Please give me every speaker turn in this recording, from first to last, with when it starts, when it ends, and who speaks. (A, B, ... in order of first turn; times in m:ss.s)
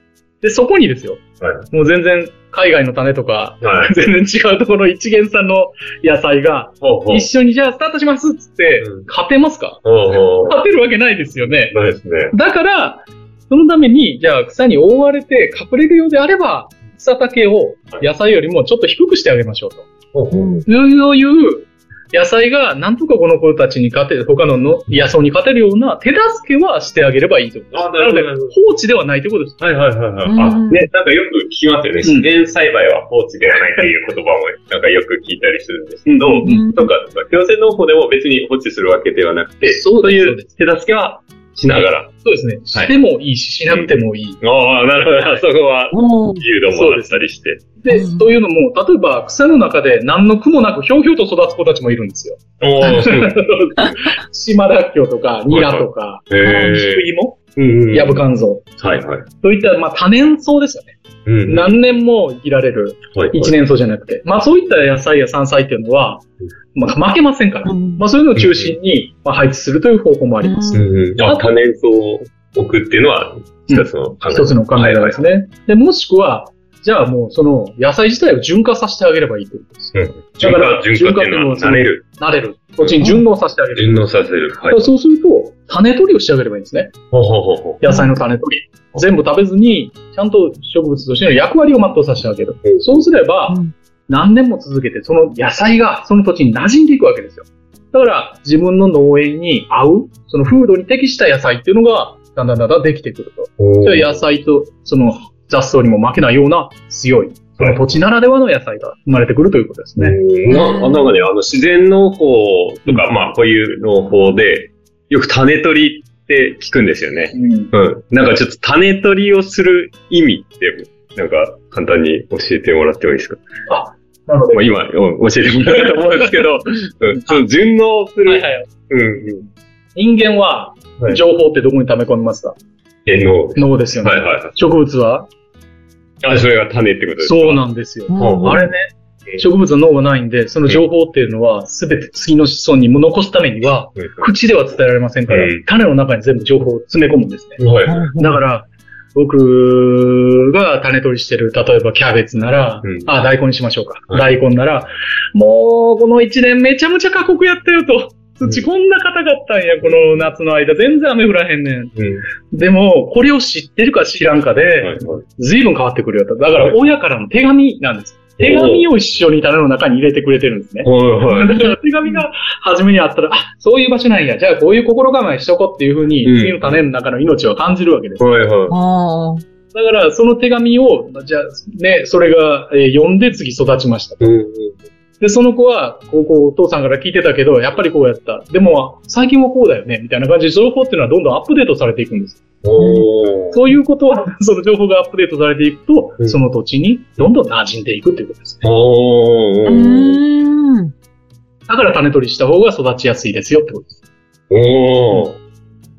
0:00.4-0:11.8 A
0:01.4-0:01.7 B
0:03.6-0:03.9 B
0:06.8-0:07.3 B
0:08.8-0:09.1 B
0:09.8-0:10.6 B
0:11.7-0:12.3 B
0:12.3-0:19.9 A
0:20.1-0:20.7 B
0:20.3-0:20.6 C
0:20.7-0:29.6 A
0:27.7-0:28.5 B
0:29.6-0:42.2 B
0:30.3-0:30.9 C
0:32.0-0:32.3 A
0:36.1-0:36.7 A
0:36.4-0:36.9 C
0:39.6-0:40.5 A
0:42.2-0:44.4 A
0:43.7-0:47.7 B
0:45.2-0:45.4 A
0:45.9-0:46.4 C
0:46.7-0:57.4 A
0:47.9-0:48.3 C
0:52.6-0:54.0 B
0:55.5-0:57.0 B
0:56.4-0:56.8 C
0:57.6-0:58.2 B
0:57.9-0:58.7 A
0:58.8-0:59.3 B
0:59.4-1:11.5 A
1:01.3-1:01.8 B
1:03.1-1:03.5 B
1:07.6-1:08.0 C
1:08.4-1:08.8 B
1:10.4-1:10.8 C
1:10.7-1:15.2 B
1:13.7-1:24.1 A
1:19.9-1:22.0 B
1:23.8-1:24.8 B
1:24.7-1:27.0 A
1:27.1-1:27.8 B
1:27.8-1:50.2 A
1:27.8-1:28.2 C
1:43.6-1:44.2 B
1:50.0-2:03.4 B
1:50.5-1:51.2 C
1:57.3-1:57.7 A
2:03.7-2:04.7 A
2:04.5-2:09.5 B
2:08.3-2:08.7 A
2:10.0-2:12.6 A
2:13.1-2:14.6 B
2:13.6-2:15.3 A
2:16.2-2:17.6 B
2:17.2-2:18.9 A
2:18.1-2:18.7 C
2:18.2-2:18.7 B
2:19.4-2:27.6 A
2:24.0-2:24.3 B
2:25.3-2:25.6 B
2:27.6-2:28.1 B
2:27.9-2:28.4 C
2:28.2-2:42.0 A
2:42.0-2:42.3 B
2:42.5-2:58.3 A
2:44.8-2:45.2 B
2:48.4-2:48.9 B
2:50.8-2:51.6 B
2:51.3-2:52.2 C
2:56.2-2:56.8 B
2:58.2-2:58.8 B
2:58.7-2:59.4 C
2:59.7-3:04.2 A
3:04.2-3:04.8 B
3:05.2-3:12.4 A
3:12.6-3:13.6 B
3:12.8-3:13.1 C
3:13.5-3:18.6 A
3:18.6-3:20.2 B
3:19.6-3:20.9 C
3:21.7-3:24.0 A
3:24.5-3:25.4 B